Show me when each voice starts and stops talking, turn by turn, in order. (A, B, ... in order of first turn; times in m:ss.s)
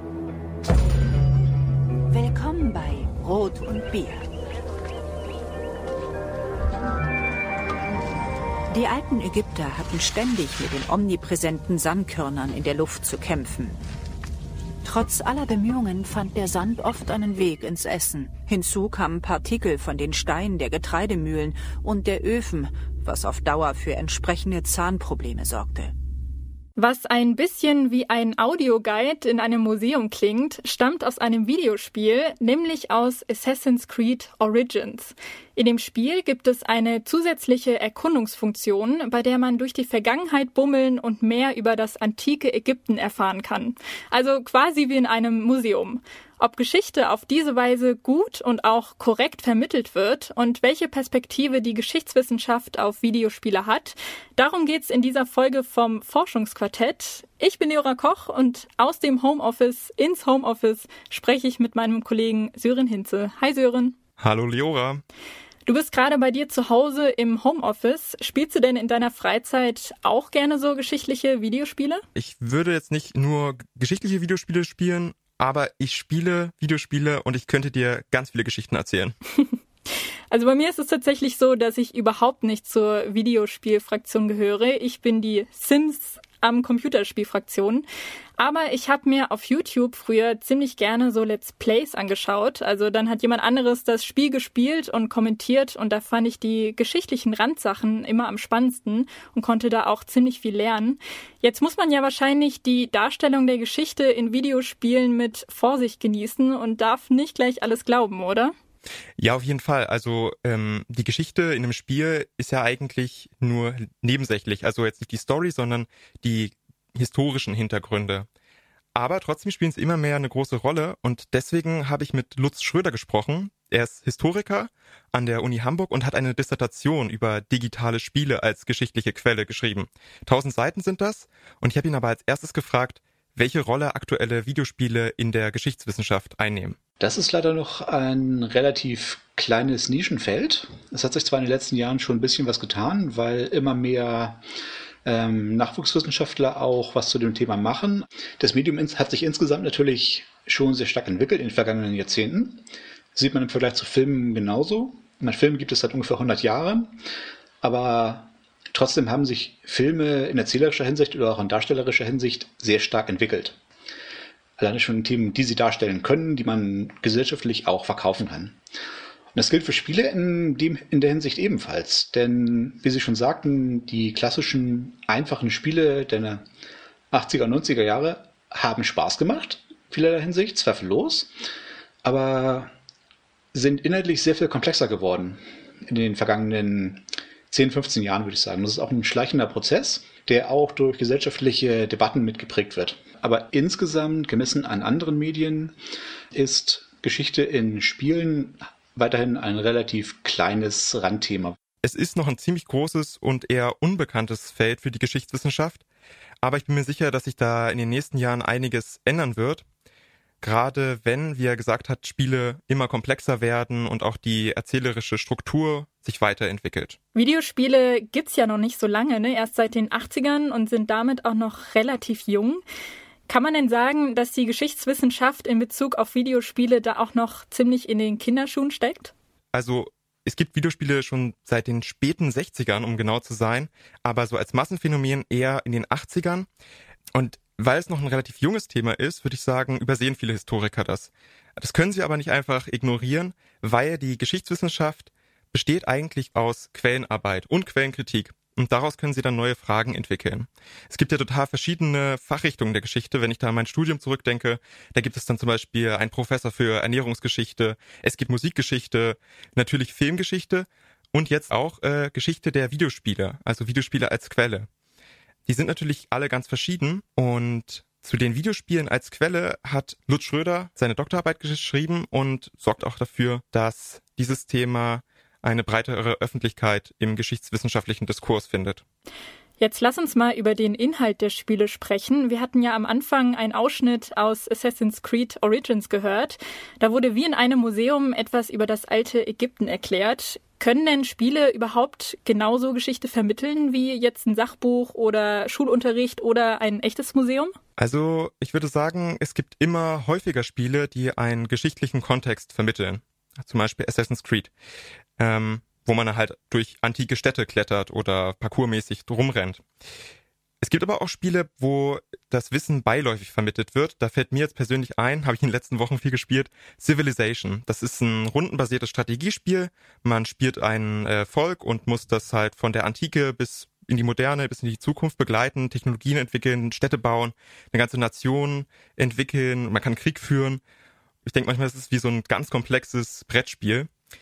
0:02.1-0:04.3 A
0:08.7-0:13.8 A
0:14.8-0:25.9 A
0:26.8-1:04.0 B
1:04.2-1:05.0 C
1:05.7-1:12.0 B
1:12.2-1:19.2 C
1:20.3-1:27.8 B
1:28.4-1:48.6 B
1:49.2-1:58.3 C
1:59.0-2:16.8 C
2:17.0-2:24.4 D
2:25.0-2:37.0 D
2:37.6-2:43.6 D
2:44.6-2:48.6 D
2:49.3-2:56.4 D
2:57.1-3:01.3 D
3:02.0-3:02.7 D
3:03.5-3:15.7 D
3:16.3-3:21.6 D
3:21.8-3:25.8 C
3:26.4-3:29.6 C
3:30.4-3:37.0 C
3:37.2-3:42.6 B
3:43.3-3:49.1 B
3:49.5-3:56.5 C
3:57.1-4:24.7 C
4:25.5-4:38.8 C
4:39.6-4:57.6 B
4:57.8-5:04.5 C
5:05.2-5:09.6 C
5:10.6-5:30.6 C
5:31.2-5:33.9 C